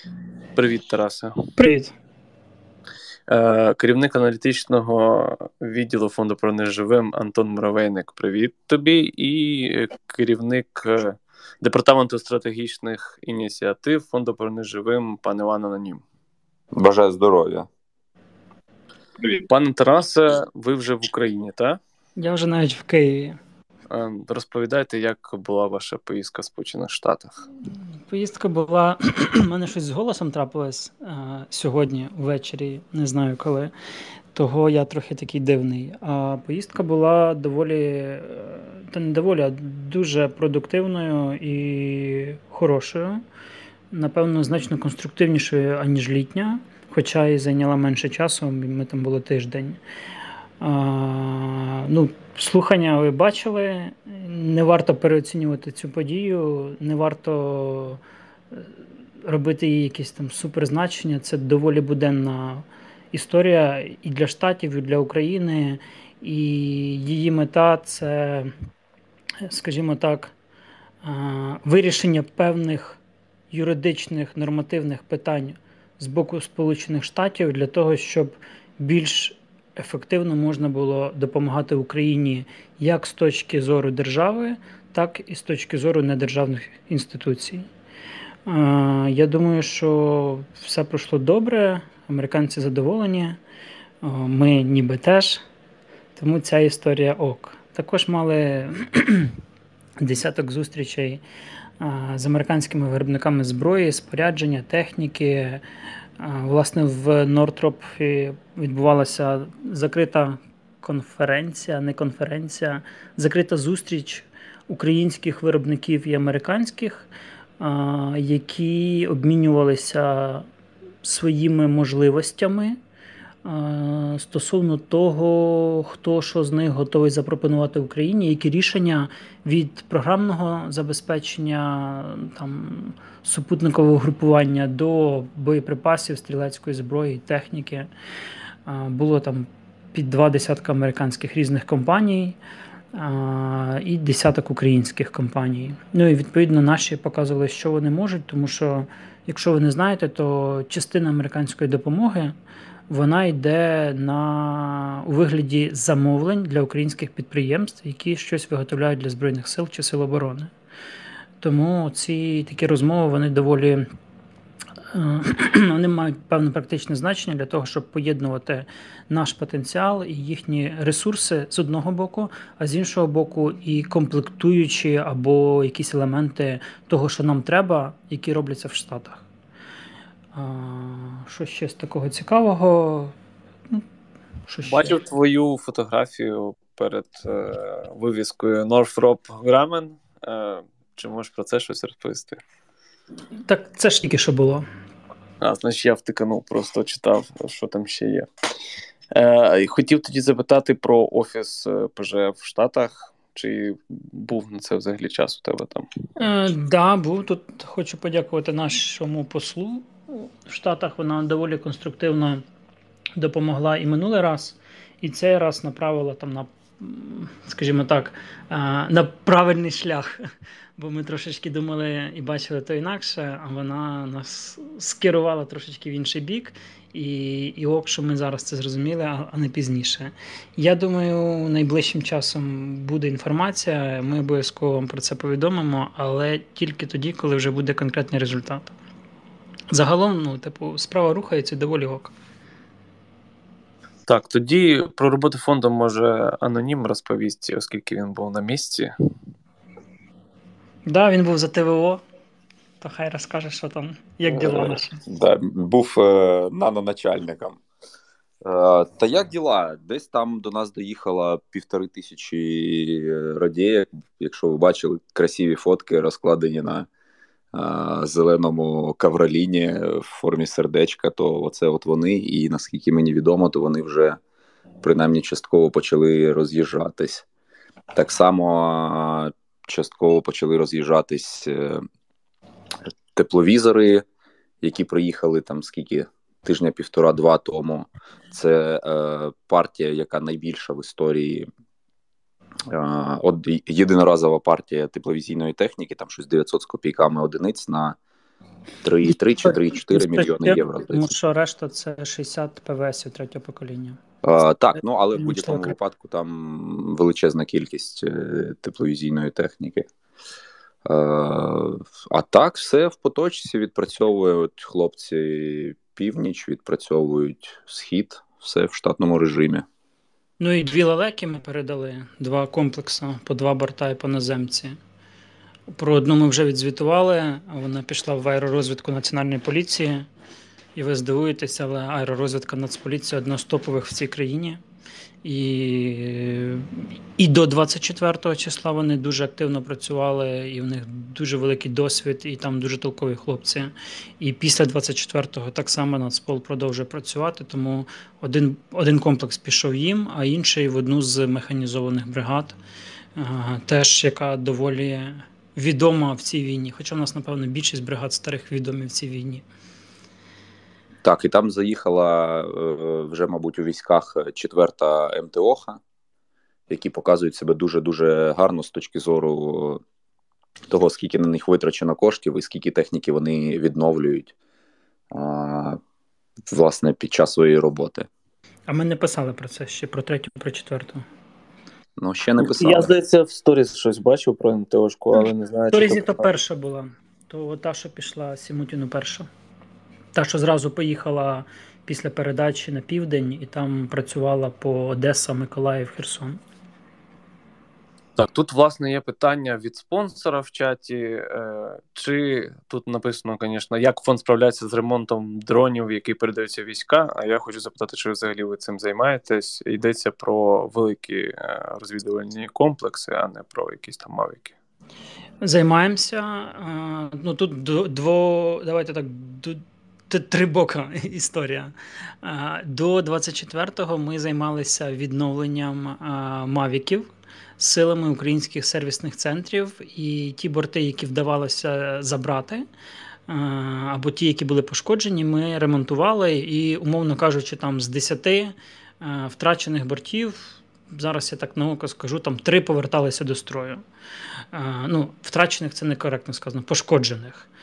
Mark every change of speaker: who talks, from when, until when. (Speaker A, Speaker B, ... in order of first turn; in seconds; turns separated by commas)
Speaker A: 0.5-1.5, Speaker B: 1.6-1.9, Speaker A: 3.3-16.0, Speaker C: 16.7-17.7, Speaker A: 19.2-21.8, Speaker B: 22.2-23.4, Speaker A: 23.9-27.3, Speaker B: 28.1-33.7, Speaker B: 34.3-43.2, Speaker B: 43.9-49.8, Speaker B: 50.6-58.0, Speaker B: 58.5-68.5, Speaker B: 69.5-70.3, Speaker B: 71.0-87.7, Speaker B: 88.5-93.4, Speaker B: 94.0-95.4, Speaker B: 96.2-99.3, Speaker B: 100.0-101.2, Speaker B: 101.8-105.6, Speaker B: 106.2-117.1, Speaker B: 117.6-120.5, Speaker B: 121.0-122.8, Speaker B: 123.4-137.9, Speaker B: 138.7-142.4, Speaker B: 142.9-152.3, Speaker B: 152.9-160.5, Speaker B: 161.4-163.9, Speaker B: 164.9-179.2, Speaker B: 180.3-183.1, Speaker B: 184.5-185.0, Speaker A: 184.6-192.4, Speaker B: 193.5-194.7, Speaker A: 195.4-198.3, Speaker A: 199.1-205.8, Speaker B: 206.2-212.4, Speaker B: 213.2-220.2, Speaker B: 220.8-238.7, Speaker B: 239.7-242.1, Speaker A: 244.1-248.9, Speaker B: 250.9-252.0, Speaker B: 252.8-255.0, Speaker C: 254.3-257.6, Speaker C: 258.4-266.9, Speaker C: 267.5-274.2, Speaker C: 274.8-277.2, Speaker C: 277.9-281.8, Speaker C: 283.1-284.0, Speaker C: 284.6-291.5, Speaker C: 292.7-298.0, Speaker C: 298.8-301.1, Speaker B: 299.0-304.0, Speaker C: 304.2-309.9, Speaker B: 305.1-305.8, Speaker C: 310.9-319.6, Speaker B: 320.4-324.8, Speaker B: 325.7-330.1, Speaker B: 330.8-334.6, Speaker B: 335.2-352.6, Speaker B: 353.2-359.4, Speaker C: 361.0-365.8, Speaker C: 366.7-369.8, Speaker C: 370.7-374.3, Speaker C: 375.1-375.8, Speaker C: 376.5-378.1, Speaker B: 378.7-381.0, Speaker C: 382.0-382.9, Speaker A: 382.4-386.3, Speaker B: 385.7-389.3, Speaker B: 390.1-396.4, Speaker A: 398.2-414.5, Speaker B: 415.4-432.6, Speaker B: 433.3-443.8, Speaker B: 444.5-447.5